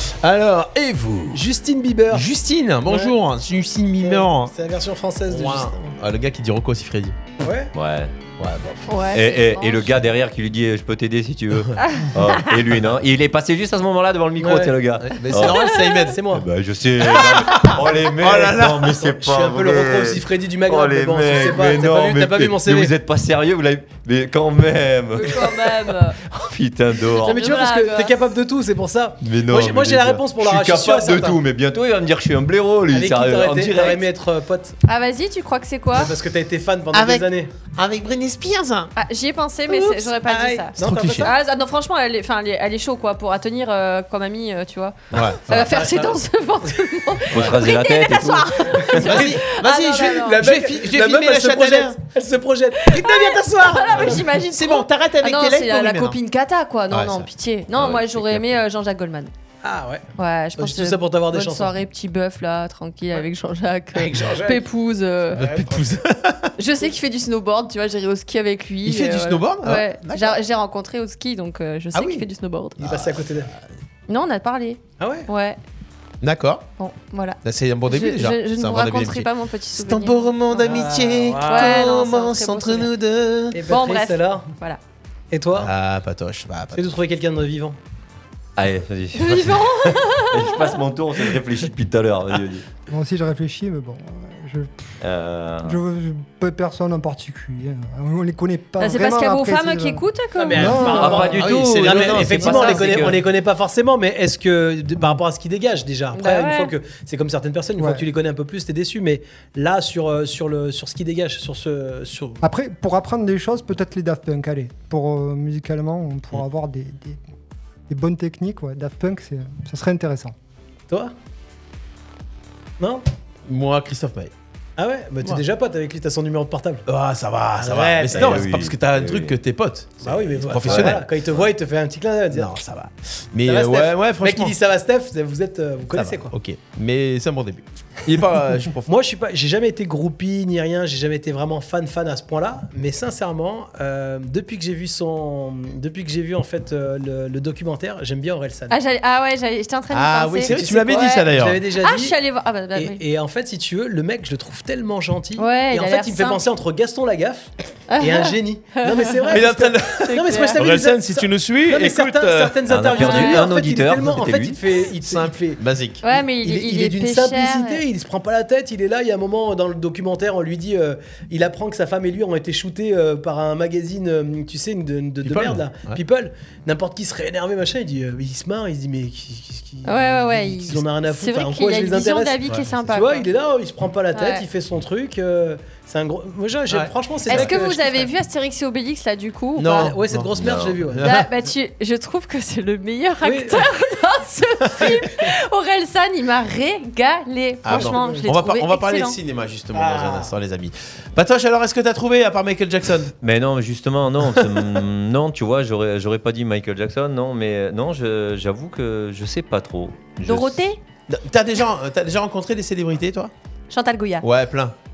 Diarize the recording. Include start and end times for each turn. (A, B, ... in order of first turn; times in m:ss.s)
0:00.2-0:01.4 A
0:01.3-0:02.2 B
0:02.1-0:04.5 A
0:02.9-0:03.1 B
0:04.0-0:06.0 B
0:05.3-0:07.2 A
0:07.4-0:07.7 B
0:07.7-0:08.1 C
0:08.4-0:08.9 A
0:08.9-0:09.9 D
0:09.1-0:15.7 C
0:11.8-0:12.3 D
0:14.4-0:14.7 B
0:15.0-0:16.2 A
0:15.3-0:16.5 B
0:16.3-0:25.7 C
0:17.2-0:19.0 A
0:19.0-0:22.9 B
0:25.1-0:26.2 D
0:26.2-0:27.5 C
0:27.2-0:28.1 D
0:27.2-0:31.4 B
0:29.2-0:34.0 C
0:32.9-0:34.8 B
0:34.8-0:36.1 D
0:35.9-0:37.5 B
0:36.9-0:38.9 A
0:39.0-0:50.4 D
0:39.7-0:41.3 B
0:40.8-0:41.3 A
0:45.1-0:45.4 A
0:45.5-0:46.2 B
0:47.3-0:48.5 C
0:48.9-0:54.2 B
0:49.0-0:52.0 A
0:52.8-0:59.3 D
0:54.0-0:56.2 A
0:56.9-0:58.4 A
0:59.6-1:00.0 B
1:00.2-1:05.4 D
1:00.6-1:01.7 B
1:03.9-1:04.6 B
1:05.3-1:06.5 A
1:05.3-1:06.0 B
1:06.6-1:12.8 D
1:08.8-1:10.4 A
1:11.9-1:12.2 A
1:12.8-1:13.2 A
1:12.8-1:13.5 B
1:14.1-1:15.6 D
1:15.0-1:15.3 B
1:16.2-1:16.6 A
1:16.8-1:20.7 D
1:17.4-1:23.6 A
1:20.5-1:21.7 B
1:21.4-1:22.9 D
1:23.5-1:24.5 B
1:23.7-1:24.8 D
1:25.3-1:25.7 B
1:25.6-1:26.9 A
1:26.7-1:27.8 B
1:28.6-1:32.6 C
1:29.1-1:30.7 D
1:32.9-1:34.9 E
1:35.0-1:35.8 C
1:35.6-1:41.2 E
1:38.8-1:41.4 D
1:40.4-1:52.4 B
1:40.7-1:43.2 C
1:41.3-1:42.4 A
1:46.1-1:46.7 D
1:47.8-1:48.0 E
1:52.4-1:57.2 E
1:57.9-2:00.3 E
2:03.5-2:04.3 A
2:04.8-2:06.8 B
2:06.9-2:11.0 A
2:07.6-2:08.5 B
2:08.1-2:09.3 C
2:10.0-2:12.5 B
2:10.6-2:11.0 C
2:12.3-2:14.5 A
2:13.4-2:16.3 B
2:15.9-2:18.9 A
2:18.9-2:28.8 B
2:28.7-2:31.3 D
2:29.9-2:31.6 A
2:30.4-2:32.2 B
2:31.8-2:33.0 D
2:32.7-3:08.1 B
2:35.4-2:36.4 D
2:37.9-2:39.4 D
2:39.3-2:42.6 A
2:40.0-2:40.7 D
2:42.7-2:44.6 C
2:43.0-2:43.4 D
2:45.0-2:46.0 A
2:46.0-2:47.8 D
2:55.2-2:56.0 A
2:59.8-3:03.3 D
3:04.1-3:04.4 D
3:06.7-3:07.5 A
3:07.2-3:09.9 D
3:09.6-3:11.3 A
3:09.7-3:11.0 B
3:10.4-3:10.8 C
3:11.0-3:19.2 D
3:13.2-3:13.6 B
3:14.8-3:15.3 B
3:17.6-3:23.1 A
3:17.7-3:18.3 B
3:19.7-3:20.3 B
3:23.2-3:30.6 C
3:30.2-3:30.8 D
3:31.1-3:33.3 A
3:33.7-3:34.2 D
3:34.2-3:34.7 A